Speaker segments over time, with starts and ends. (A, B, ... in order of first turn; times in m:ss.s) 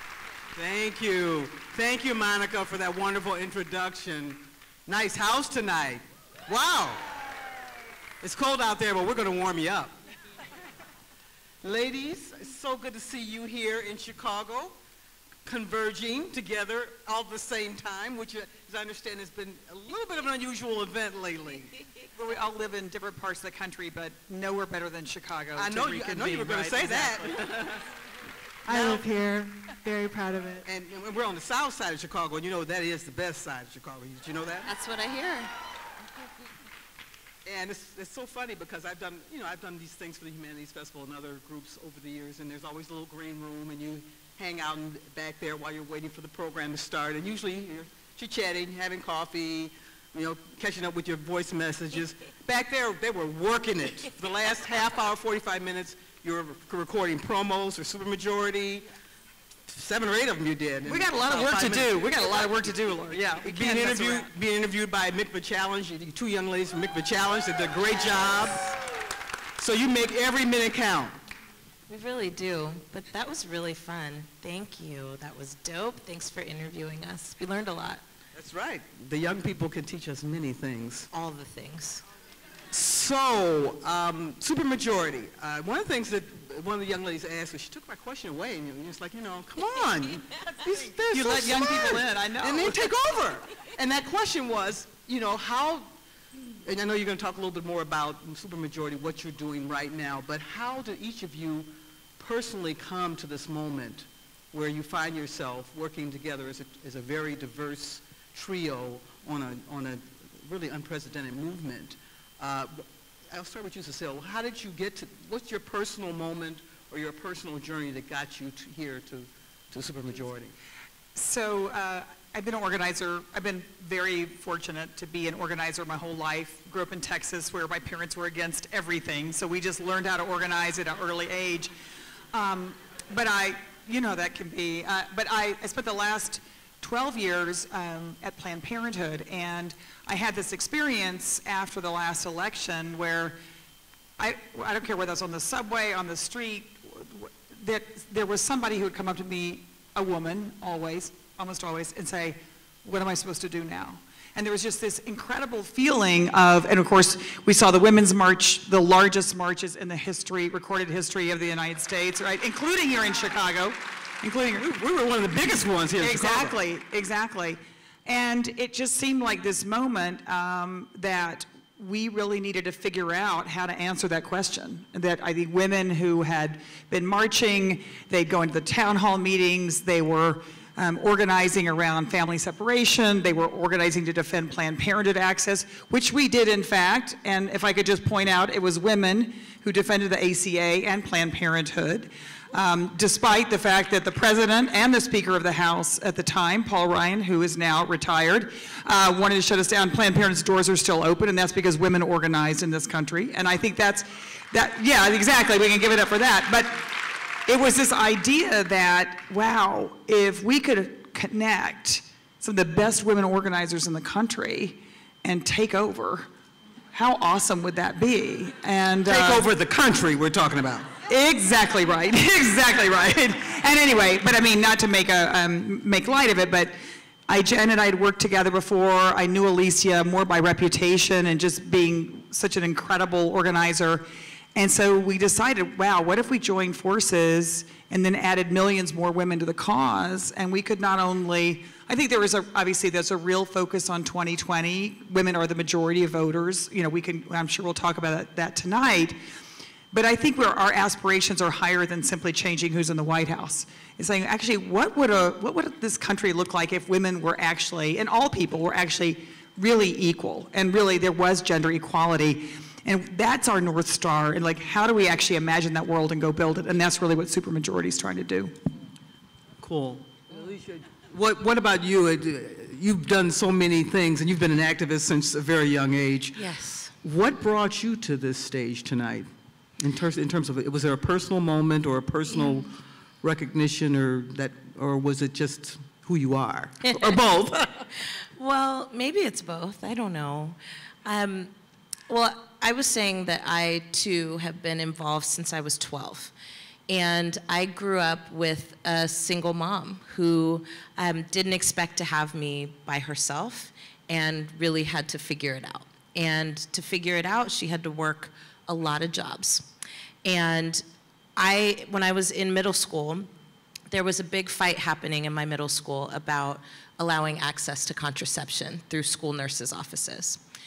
0:00.5-0:07.0 A
0:08.2-0:09.9 A
0:11.6-0:14.8 A
0:15.4-0:21.7 A
0:22.1-0:27.5 B
0:25.5-0:27.8 A
0:28.6-0:30.6 C
0:30.6-0:34.7 A
0:34.6-0:35.5 D
0:37.4-0:58.8 A
0:59.7-1:02.5 A
1:00.8-1:04.3 B
1:03.1-1:08.7 A
1:09.6-1:11.2 A
1:11.9-1:18.0 D
1:18.3-1:21.1 A
1:21.1-1:22.0 D
1:22.7-1:35.9 A
1:31.1-1:32.9 B
1:36.6-2:00.5 A
2:01.1-2:11.7 B
2:12.3-2:23.4 B
2:24.2-2:44.6 B
2:44.6-2:46.6 A
2:46.0-3:36.3 B
3:36.9-3:39.5 B
3:39.0-3:40.9 A
3:41.1-3:46.8 B
3:47.3-4:09.2 B
4:09.9-4:28.5 B
4:29.6-4:36.4 A
4:36.4-4:36.9 D
4:37.0-4:39.3 A
4:39.8-4:47.7 A
4:46.8-4:47.2 D
4:48.4-4:51.5 D
4:52.1-4:56.3 D
4:56.9-5:09.7 D
5:10.2-5:10.8 D
5:11.4-5:13.3 D
5:13.9-5:20.4 D